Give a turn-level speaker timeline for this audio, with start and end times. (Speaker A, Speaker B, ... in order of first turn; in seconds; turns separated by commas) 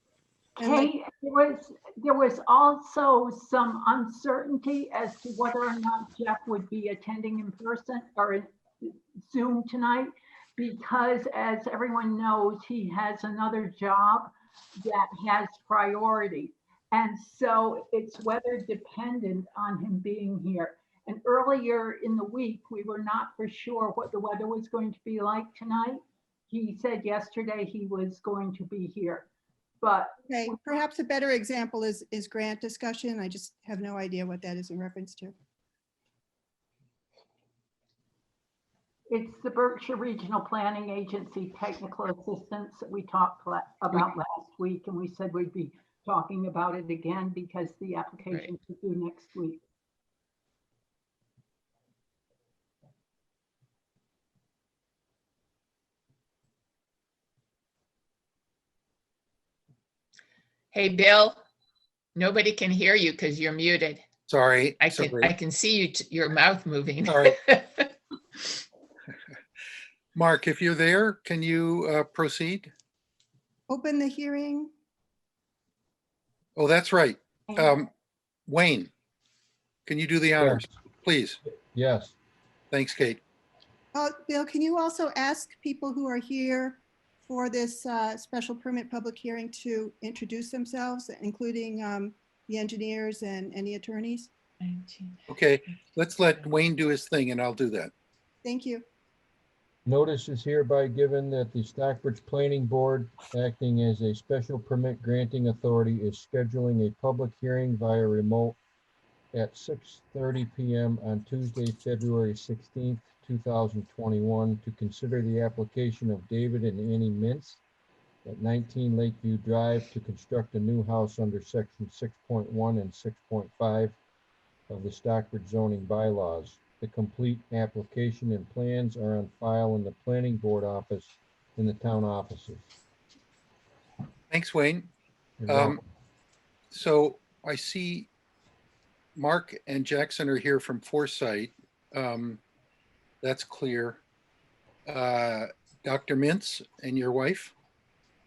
Speaker A: 0.6-0.9, Speaker B: 0.6-29.2, Speaker B: 29.8-30.5, Speaker A: 30.2-35.3, Speaker B: 39.1-49.6, Speaker C: 60.7-61.4, Speaker C: 62.1-64.0, Speaker D: 64.3-65.3, Speaker C: 64.8-68.5, Speaker D: 67.1-67.3, Speaker D: 70.1-72.7, Speaker A: 73.7-74.7, Speaker D: 76.5-77.9, Speaker D: 78.5-78.9, Speaker D: 79.8-81.4, Speaker E: 80.4-80.7, Speaker E: 81.4-82.1, Speaker D: 82.7-83.2, Speaker A: 83.9-94.3, Speaker C: 94.6-95.2, Speaker D: 95.3-97.9, Speaker A: 98.4-98.8, Speaker E: 99.8-108.6, Speaker E: 109.3-117.6, Speaker E: 118.2-124.0, Speaker E: 124.7-132.7, Speaker D: 134.3-134.9, Speaker E: 135.4-135.8, Speaker D: 135.5-135.8, Speaker D: 136.7-138.1, Speaker D: 139.2-142.4, Speaker D: 143.2-144.0, Speaker D: 144.9-147.5